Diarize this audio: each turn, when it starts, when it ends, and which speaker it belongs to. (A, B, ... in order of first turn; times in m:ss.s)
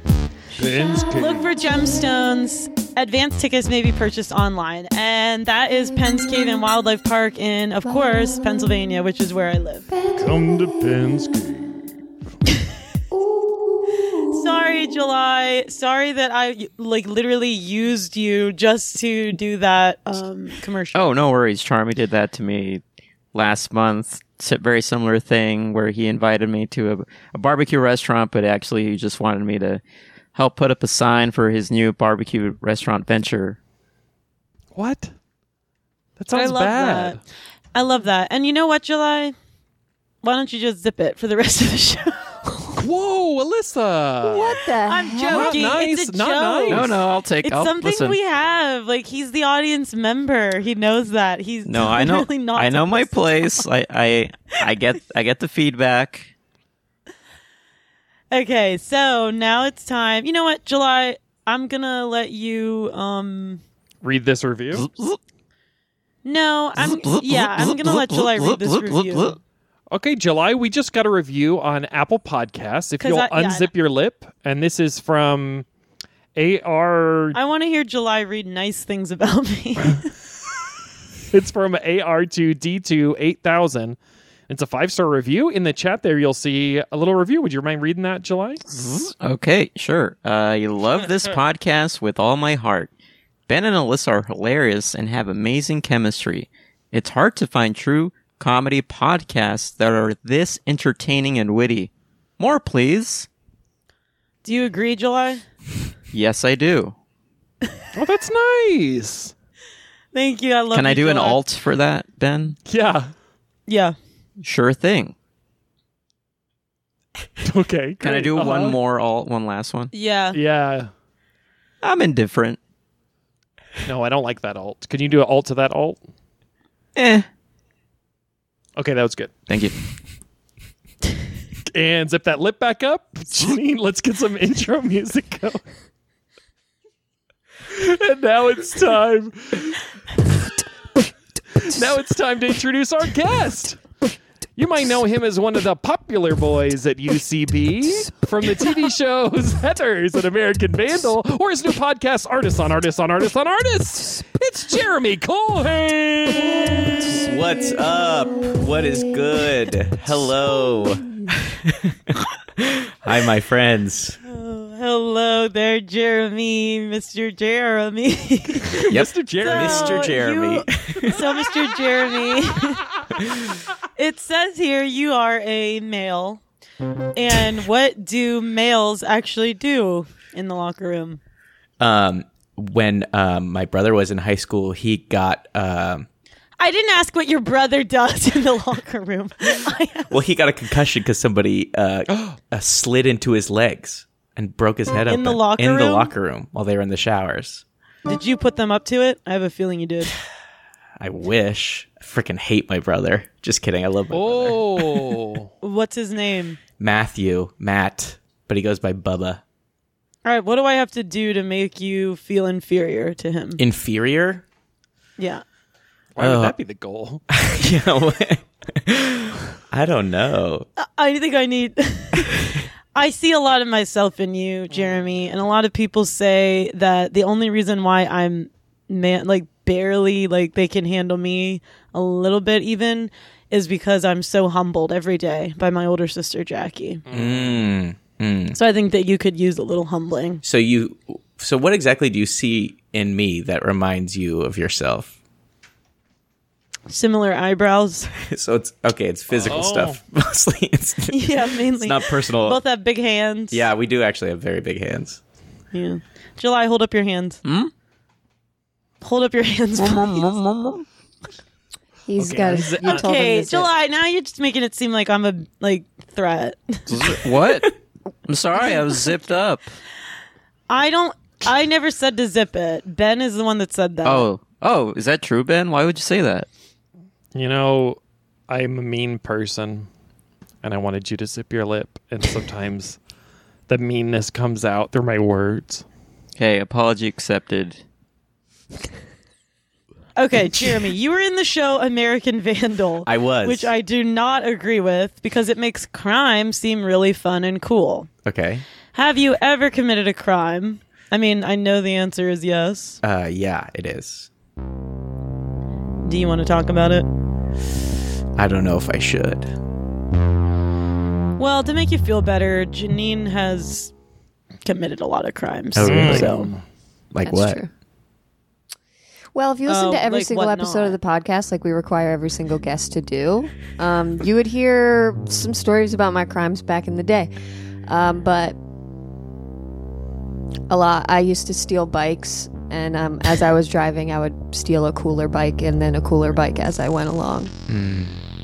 0:00.5-0:01.5 A
0:00.6-0:09.9 B
0:10.2-0:11.9 A
0:14.3-0:21.1 B
0:20.9-0:22.8 C
0:23.3-0:29.8 C
0:30.4-0:33.6 C
0:34.7-0:35.1 A
0:36.2-0:37.2 A
0:36.3-0:37.2 B
0:37.7-0:39.4 B
0:40.2-0:42.6 B
0:42.8-0:44.6 A
0:44.2-0:45.7 D
0:44.8-0:53.6 B
0:45.3-0:47.0 A
0:46.7-0:48.2 C
0:51.7-0:56.3 C
0:58.3-1:03.6 B
1:04.0-1:04.9 A
1:04.8-1:05.2 C
1:06.2-1:09.4 B
1:06.8-1:09.4 C
1:09.9-1:15.7 A
1:13.0-1:13.7 B
1:16.4-1:17.4 A
1:17.3-1:20.1 B
1:21.3-1:24.0 A
1:24.5-1:28.7 A
1:28.7-1:32.9 C
1:33.5-1:43.3 C
1:44.4-1:45.4 B
1:46.1-1:47.0 C
1:48.0-1:49.3 A
1:50.1-1:51.4 B
1:50.7-1:52.6 C
1:52.7-1:53.1 A
1:53.7-1:54.0 B
1:54.4-1:55.2 C
1:57.4-1:58.8 A
1:58.0-1:59.9 C
1:59.9-2:00.4 B
2:00.3-2:00.9 A
2:01.8-2:02.6 C
2:03.9-2:06.0 A
2:07.0-2:07.3 C
2:08.8-2:09.3 A
2:09.5-2:09.8 C
2:11.7-2:15.6 A
2:17.7-2:19.8 A
2:21.6-2:23.8 A
2:24.6-2:37.1 A
2:37.1-2:44.2 E
2:44.2-2:48.9 B
2:48.7-2:50.2 A
2:48.9-2:51.2 E
2:49.4-2:52.8 B
2:54.0-2:56.4 B
2:57.2-3:01.2 B
3:01.8-3:06.1 E
3:06.6-3:10.2 B
3:10.1-3:17.6 E
3:15.1-3:16.1 B
3:18.1-3:20.1 B
3:21.0-3:25.1 E
3:24.1-3:25.5 A
3:25.6-3:26.6 B
3:26.8-3:29.4 E
3:30.2-3:33.6 B
3:33.6-3:34.4 E
3:35.2-3:35.4 B
3:36.2-3:37.2 A
3:36.2-3:36.6 E
3:37.3-3:40.7 E
3:40.8-3:42.4 B
3:42.9-3:57.0 B
3:57.1-3:57.6 A
3:57.1-3:58.6 E
3:58.5-4:00.4 B
4:00.4-4:05.1 E
4:06.9-4:08.1 B
4:08.2-4:12.6 E
4:09.3-4:10.0 A
4:11.1-4:13.7 B
4:13.5-4:15.2 E
4:15.7-4:17.4 B
4:17.4-4:17.7 C
4:19.0-4:20.3 B
4:19.8-4:20.8 C
4:22.1-4:23.7 D
4:22.2-4:23.0 A
4:22.8-4:27.2 B
4:26.9-4:27.8 C
4:28.3-4:29.7 C
4:30.7-4:34.3 B
4:34.0-4:36.5 C
4:37.3-4:39.9 A
4:40.6-4:43.0 A
4:43.7-4:45.8 A
4:46.4-4:47.8 C
4:50.2-4:58.1 B
4:53.1-4:53.7 E
4:58.3-4:58.6 E
4:58.9-5:03.0 B
5:03.0-5:04.3 E
5:06.0-5:07.1 B
5:08.4-5:09.5 E
5:11.4-5:13.9 B
5:14.6-5:16.5 B
5:15.8-5:16.3 E
5:15.8-5:16.6 A
5:17.1-5:17.6 E
5:17.2-5:17.7 D
5:19.3-5:27.3 D
5:19.7-5:21.0 B
5:27.8-5:28.6 D
5:30.7-5:37.5 D
5:37.7-5:38.2 E